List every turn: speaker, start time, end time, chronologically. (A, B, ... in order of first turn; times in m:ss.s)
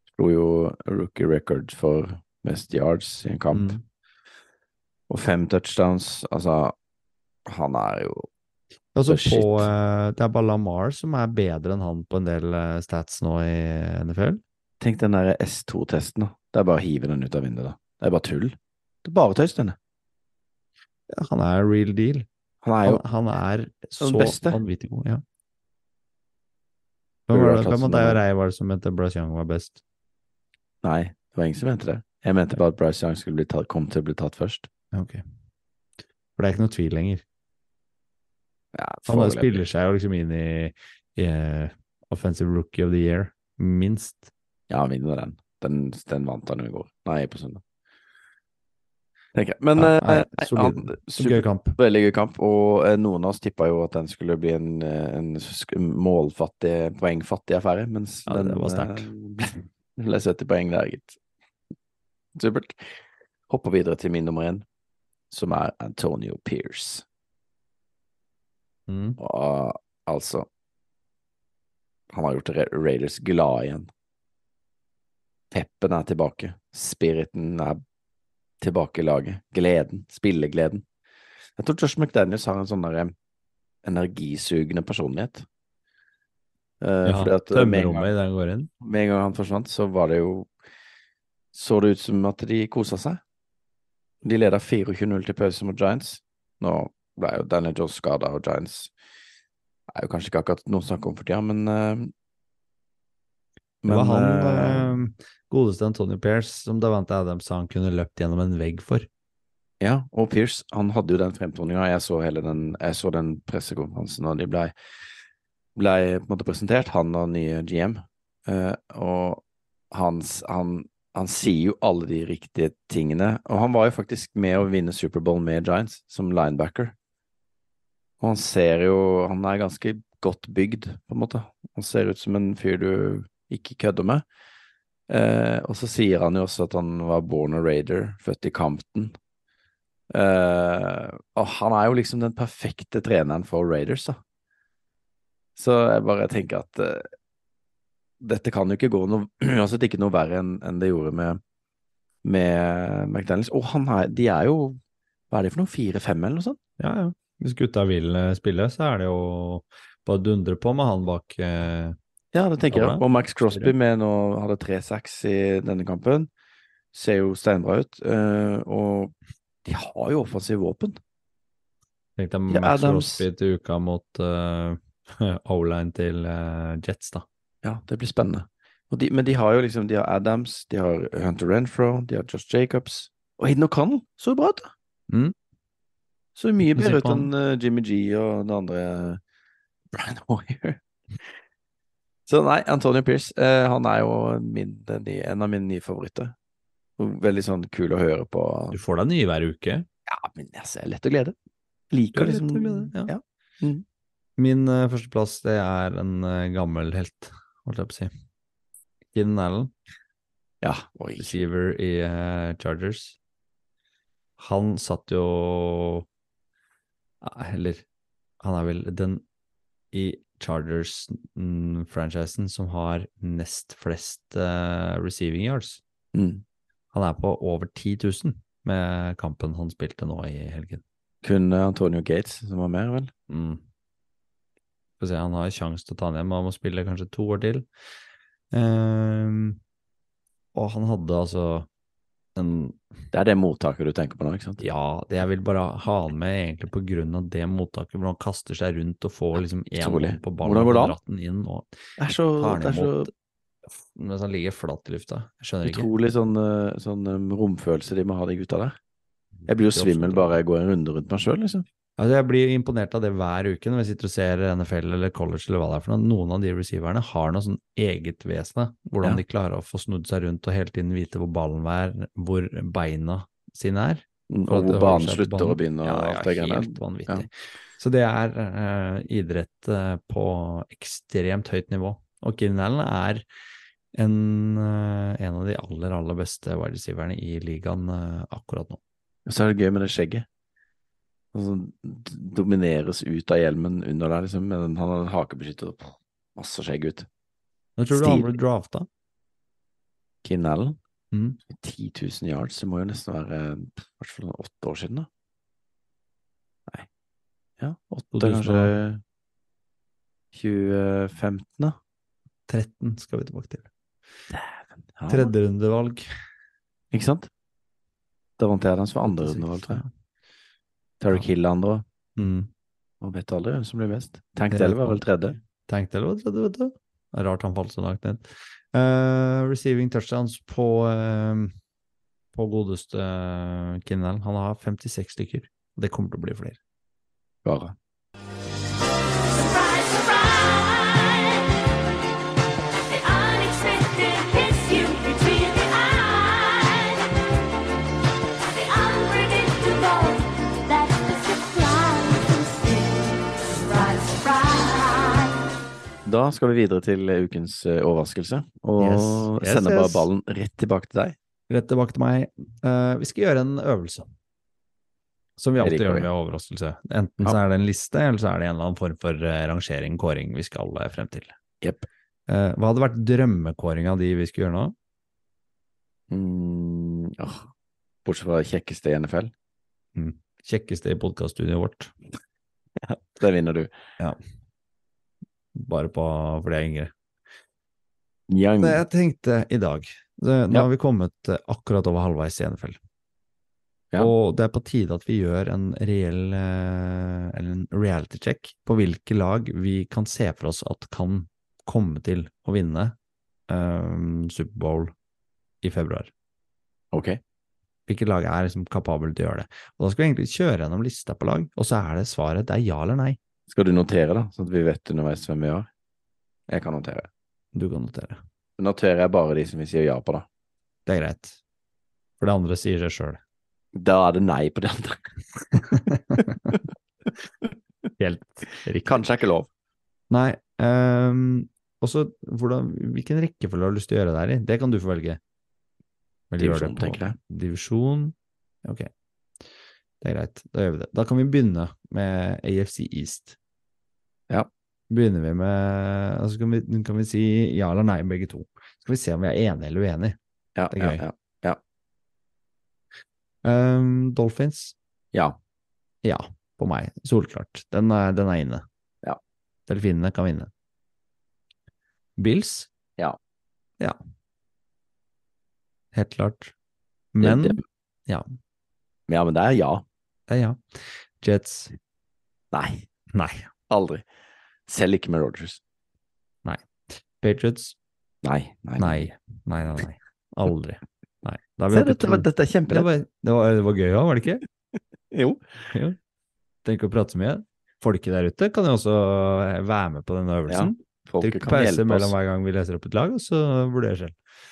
0:00.2-0:03.8 A
0:03.5-0:03.8 B
0:05.1-0:06.7 A
0:07.5-0:08.3 A
0:09.0-0:14.4 B
0:09.1-0:09.7 A
0:14.8-0:19.8 A
0:21.1-0:22.3 B
0:22.6-0:23.0 A
0:22.8-0:25.2 B
0:24.0-0:24.6 A
0:27.3-0:29.8 B
0:27.3-0:28.2 A
0:30.8-0:34.7 A
0:34.9-0:35.2 B
0:36.4-0:37.2 B
0:38.7-0:39.6 A
0:39.1-0:44.3 B
0:44.7-0:47.6 A
0:49.4-1:01.2 A
0:49.8-0:51.8 B
0:58.3-0:59.1 B
1:02.4-1:03.0 A
1:03.5-1:04.6 A
1:05.3-1:07.0 A
1:08.9-1:09.2 B
1:09.2-1:10.5 A
1:12.1-1:13.9 A
1:15.5-1:17.8 A
1:18.6-1:20.8 A
1:21.6-1:23.1 A
1:23.8-1:25.5 A
1:26.8-1:28.1 A
1:27.0-1:28.7 B
1:28.8-1:30.5 A
1:31.5-1:33.2 A
1:34.2-1:38.9 A
1:39.9-1:42.1 A
1:43.8-1:45.0 A
1:43.9-1:49.1 B
1:49.8-1:54.7 A
1:55.8-2:06.9 A
2:08.2-2:14.2 A
2:15.1-2:19.1 A
2:20.1-2:24.2 A
2:25.6-2:27.1 A
2:28.2-2:31.4 A
2:32.2-2:34.8 A
2:35.3-2:36.6 A
2:36.8-2:42.0 B
2:42.3-2:46.3 A
2:42.7-2:43.7 B
2:46.9-2:49.1 A
2:49.6-2:51.0 A
2:52.2-2:57.2 B
2:52.5-2:53.2 A
2:57.6-3:04.7 A
3:06.4-3:09.2 A
3:06.7-3:07.3 B
3:09.9-3:10.8 A
3:12.3-3:16.3 A
3:17.0-3:18.8 A
3:18.7-3:19.9 B
3:20.1-3:21.4 A
3:21.9-3:23.8 A
3:22.2-3:23.1 B
3:24.4-3:28.1 B
3:29.1-3:29.7 B
3:30.6-3:31.4 A
3:31.2-3:33.2 B
3:34.4-3:36.1 B
3:37.2-3:37.8 B
3:38.4-3:39.2 B
3:39.9-3:45.8 B
3:46.1-3:46.4 A
3:46.9-3:50.8 B
3:51.2-3:53.1 A
3:53.3-3:53.6 B
3:55.0-3:57.7 B
3:58.5-3:59.6 B
4:00.5-4:01.7 B
4:02.4-4:02.8 B
4:03.1-4:04.6 A
4:04.6-4:11.7 B
4:09.8-4:11.0 A
4:12.0-4:13.1 A
4:12.4-4:13.1 B
4:13.9-4:15.9 B
4:15.6-4:18.8 A
4:19.4-4:20.4 B
4:19.5-4:21.6 A
4:22.0-4:43.2 B
4:34.3-4:37.3 A
4:44.0-4:48.8 B
4:49.3-4:50.2 A
4:51.3-4:57.1 A
4:57.8-4:58.9 B
4:57.9-4:58.3 A
5:00.2-5:00.8 A
5:01.1-5:01.4 B
5:01.5-5:05.1 A
5:07.6-5:09.0 A
5:08.1-5:08.7 B
5:10.3-5:11.8 A
5:12.5-5:13.7 B
5:14.3-5:15.3 A
5:15.1-5:16.1 B
5:16.9-5:17.3 A
5:18.4-5:19.8 A
5:19.1-5:19.9 B
5:21.0-5:21.8 A
5:22.2-5:22.5 B
5:23.0-5:25.4 A
5:24.5-5:31.5 B
5:32.3-5:36.6 B
5:37.4-5:37.8 A
5:39.3-5:41.6 C
5:42.8-5:47.1 C
5:48.4-5:55.4 C
5:56.0-6:01.2 A
5:58.8-6:00.1 B
6:01.5-6:04.1 B
6:05.4-6:11.3 B
6:05.6-6:06.1 A
6:11.6-6:11.9 A
6:12.3-6:14.8 B
6:16.1-6:17.5 A
6:18.0-6:19.3 A
6:20.0-6:21.9 B
6:22.8-6:23.7 A
6:25.6-6:26.9 B
6:28.3-6:28.8 A
6:28.6-6:32.8 B
6:34.0-6:43.0 B
6:43.5-6:44.9 B
6:45.6-6:46.1 B
6:46.9-6:47.2 A
6:47.9-6:53.2 B
6:53.5-6:55.7 A
6:56.5-6:57.1 A
6:57.5-6:58.2 B
6:58.6-7:00.3 A
7:00.9-7:01.4 B
7:02.2-7:03.2 B
7:03.8-7:05.1 A
7:05.7-7:06.3 B
7:08.0-7:09.0 B
7:08.8-7:09.5 A
7:10.1-7:15.2 B
7:16.3-7:18.9 B
7:16.4-7:17.2 A
7:20.0-7:23.4 B
7:24.9-7:30.2 B
7:30.6-7:31.6 A
7:30.7-7:31.0 B
7:33.4-7:34.8 B
7:36.0-7:38.6 B
7:39.7-7:40.5 B
7:42.2-7:42.7 B
7:45.9-7:46.5 B
7:47.2-7:48.3 B
7:47.2-7:47.6 A
7:49.1-7:49.8 A
7:50.3-7:50.6 B
7:51.2-7:51.7 B
7:52.5-7:52.9 A
7:53.1-7:53.5 B
7:53.7-7:54.0 A
7:54.7-7:55.6 A
7:56.4-7:57.8 B
7:58.2-7:59.1 A
7:58.8-8:04.4 B
8:01.7-8:02.9 A
8:05.1-8:05.5 A
8:05.7-8:06.0 B
8:06.6-8:14.2 B
8:10.5-8:12.2 A